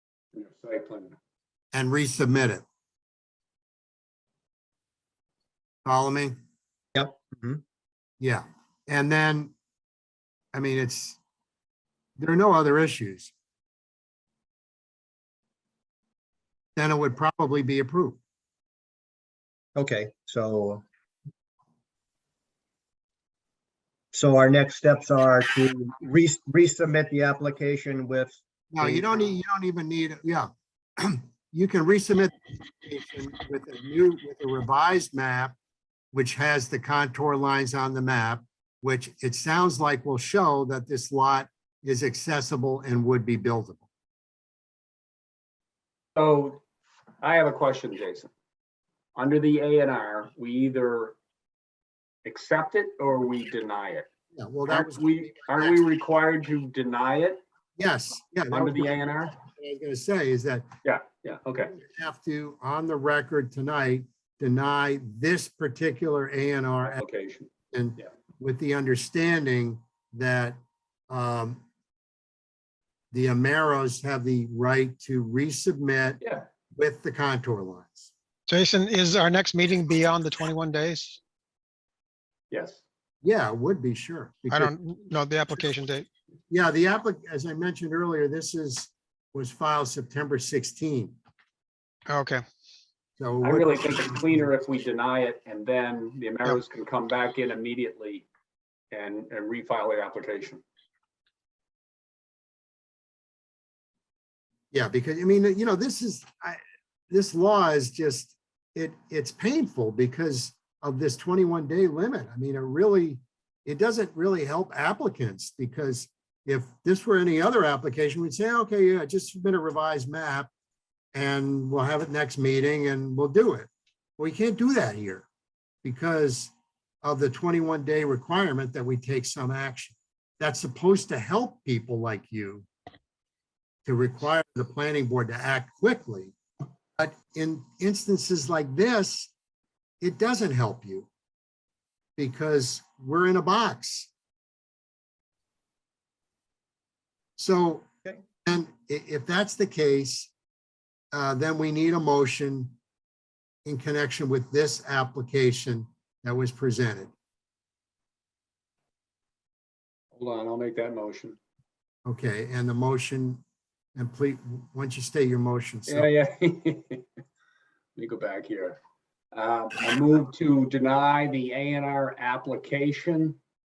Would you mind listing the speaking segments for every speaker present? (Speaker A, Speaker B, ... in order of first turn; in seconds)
Speaker A: 0.3-1.1, 46.2-46.6, 47.2-48.3, 49.2-51.2, 52.3-54.1, 54.7-57.4, 58.5-59.4, 60.8-61.7, 66.9-68.1, 76.2-76.5, 82.5-82.8, 93.4-98.3, 98.9-100.6, 160.1-161.4, 165.9-167.1, 168.0-168.8, 169.3-173.4
Speaker B: 1.7-2.6, 5.8-6.4, 8.2-9.5, 10.5-11.2, 12.2-13.3, 16.8-18.2, 28.7-35.6, 36.1-43.8, 54.4-55.8, 57.8-60.7, 61.7-67.0, 67.7-70.6, 71.1-71.6, 73.1-76.2, 76.8-78.1, 83.2-84.7, 86.5-91.2, 93.2-94.3, 104.7-120.5, 121.2-125.3, 125.8-126.5, 127.0-132.7, 133.8-136.3, 137.0-139.3, 140.0-141.1, 142.2-144.1, 147.4-147.9, 148.4-150.3, 151.1-152.8, 153.7-157.1, 162.1-163.4, 164.0-166.1
Speaker C: 7.0-7.6, 19.8-20.8, 24.1-29.2
Speaker D: 78.5-81.2, 84.5-86.1, 92.1-92.4